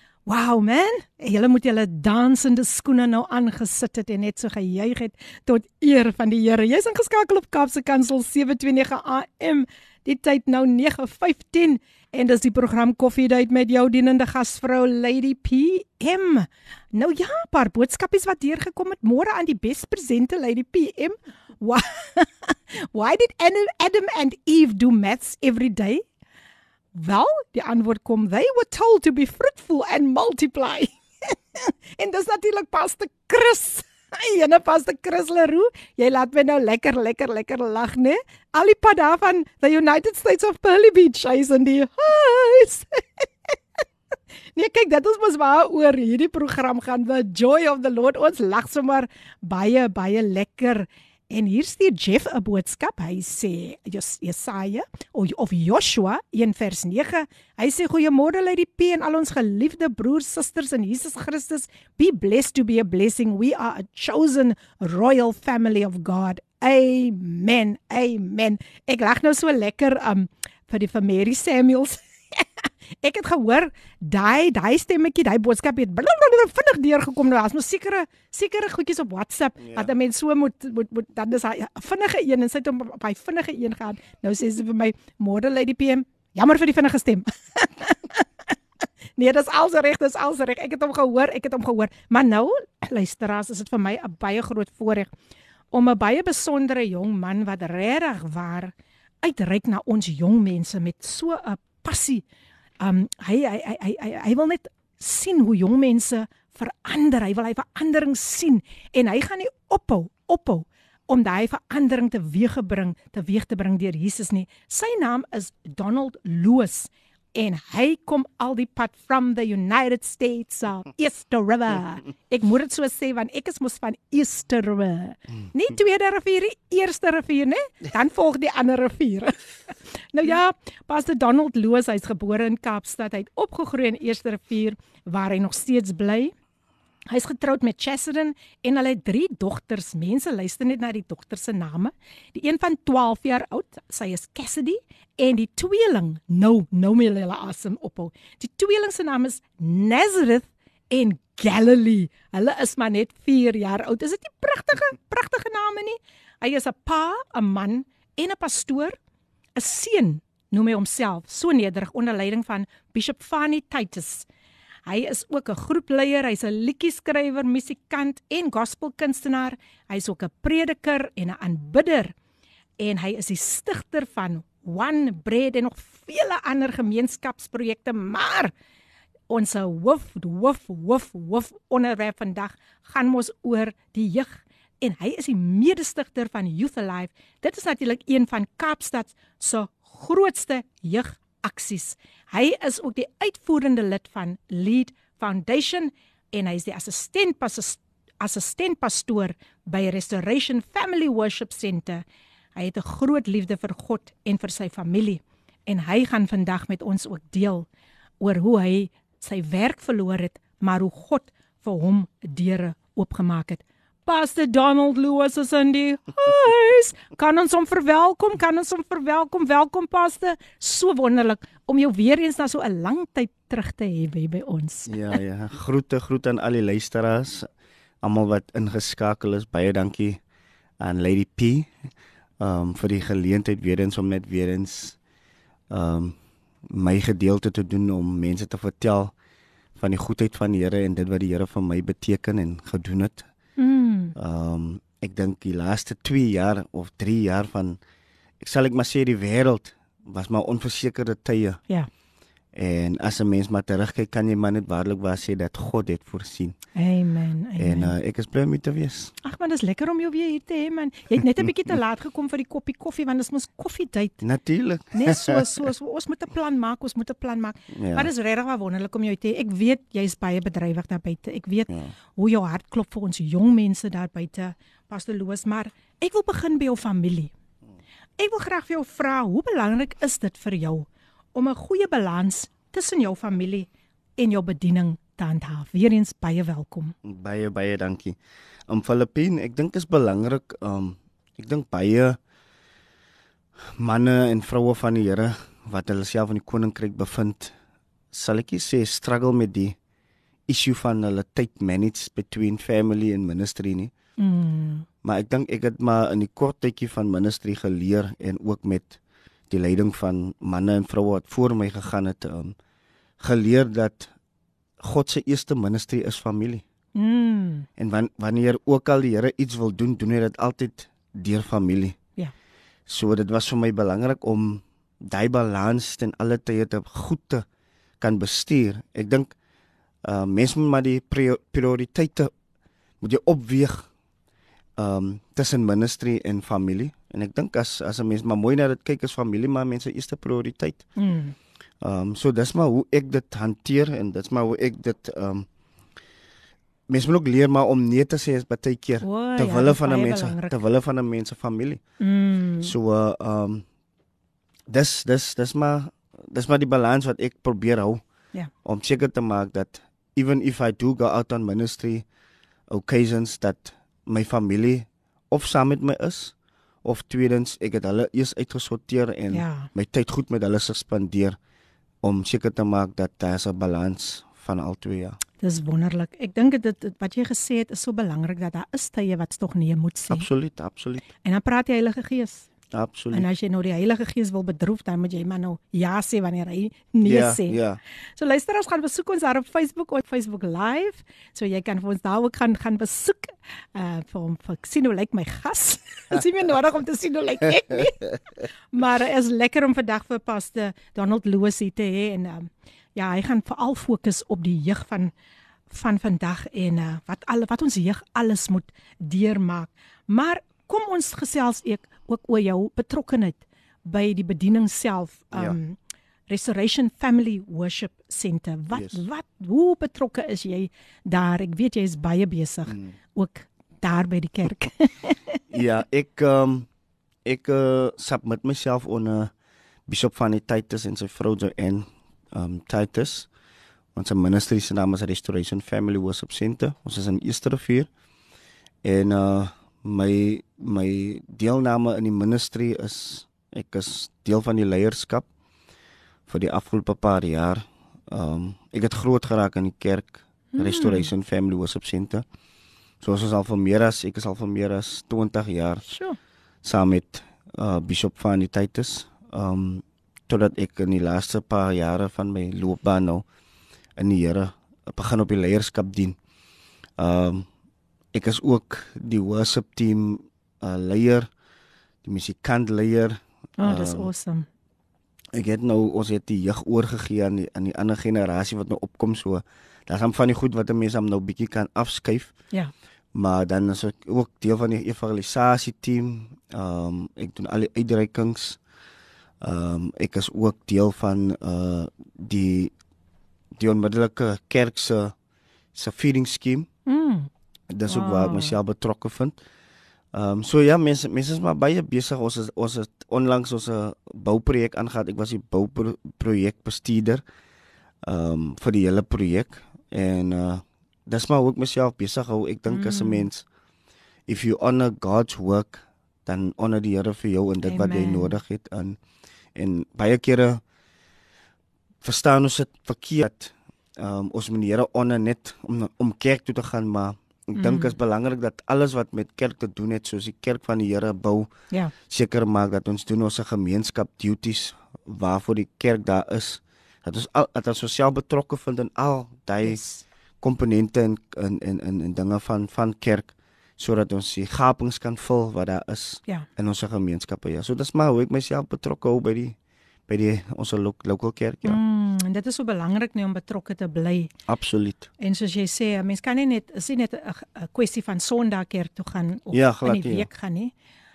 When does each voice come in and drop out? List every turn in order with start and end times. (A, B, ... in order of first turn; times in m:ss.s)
0:00.3-0:26.0 A
0:26.9-0:43.3 A
0:44.6-1:12.5 A
1:13.0-1:28.2 A
1:19.6-1:19.9 B
1:29.2-1:35.1 A
1:35.7-1:42.2 A
1:42.8-2:09.3 A
2:10.1-2:16.3 A
2:17.1-2:39.0 A
2:39.6-2:44.3 A
2:44.9-2:52.1 A
2:52.8-2:58.5 A
2:59.3-3:22.0 A
3:22.6-3:27.7 A
3:28.2-3:45.2 A
3:44.9-3:47.5 B
3:48.0-3:50.2 B
3:50.8-3:51.7 B
3:52.4-3:55.0 B
3:55.7-3:56.2 B
3:56.7-3:59.1 B
3:59.8-4:03.3 B
4:03.6-4:04.2 A
4:04.2-4:07.8 B
4:08.4-4:11.6 B
4:12.5-4:16.6 B
4:16.8-4:17.9 A
4:17.6-4:19.1 B
4:19.2-4:24.2 A
4:24.2-4:25.6 B
4:24.9-4:37.3 A
4:27.7-4:28.1 B
4:38.2-4:47.0 A
4:47.0-4:52.2 B
4:53.8-4:57.6 B
4:58.1-4:59.8 B
5:00.5-5:03.9 B
5:04.2-5:04.9 A
5:05.0-5:09.0 B
5:09.5-5:12.6 B
5:13.2-5:14.1 B
5:14.8-5:16.6 B
5:17.0-5:17.7 A
5:17.8-5:22.0 B
5:22.9-5:27.4 B
5:28.0-5:29.3 B
5:30.0-5:32.3 B
5:33.0-5:33.9 B
5:34.8-5:40.8 B
5:41.0-5:41.4 A
5:41.8-5:45.5 B
5:46.9-5:51.8 B
5:49.0-5:50.6 A
5:52.0-5:52.7 A
5:52.6-5:53.6 B
5:54.7-5:58.0 B
5:58.6-6:02.0 B
6:02.7-6:11.4 B
6:09.3-6:09.7 A
6:12.0-6:15.2 B
6:15.4-6:20.3 A
6:20.1-6:21.1 B
6:21.2-6:22.5 A
6:22.7-6:23.3 B
6:23.1-6:27.6 A
6:27.0-6:27.8 B
6:28.2-6:38.1 A
6:38.7-6:45.1 A
6:45.7-6:55.8 A
6:56.3-7:05.4 A
6:58.7-6:59.0 B
7:02.7-7:03.0 B
7:05.5-7:06.7 B
7:07.2-7:09.3 B
7:09.9-7:13.3 B
7:14.0-7:17.9 B
7:18.8-7:25.3 B
7:26.3-7:32.2 B
7:30.5-7:31.1 A
7:33.0-7:35.8 B
7:35.9-7:36.2 A
7:36.6-7:43.2 B
7:44.0-7:46.2 B
7:47.0-7:47.5 B
7:48.1-7:51.3 B
7:52.0-7:54.1 B
7:53.6-7:54.5 A
7:55.3-8:02.3 B
8:03.1-8:08.6 B
8:09.4-8:12.7 B
8:13.6-8:15.1 B
8:15.7-8:16.7 B
8:16.9-8:17.3 A
8:17.7-8:19.4 B
8:17.9-8:18.6 A
8:20.1-8:27.2 B
8:28.0-8:33.4 B
8:32.7-8:33.3 A
8:34.3-8:39.0 B
8:37.6-8:38.4 A
8:39.6-8:40.6 B
8:42.0-8:51.5 B
8:47.6-8:48.0 A
8:52.1-8:59.8 B
8:59.6-9:00.0 A
9:00.4-9:09.6 B
9:10.1-9:11.8 B
9:11.6-9:14.3 A
9:14.5-9:15.1 B
9:15.2-9:20.7 A
9:19.5-9:20.3 B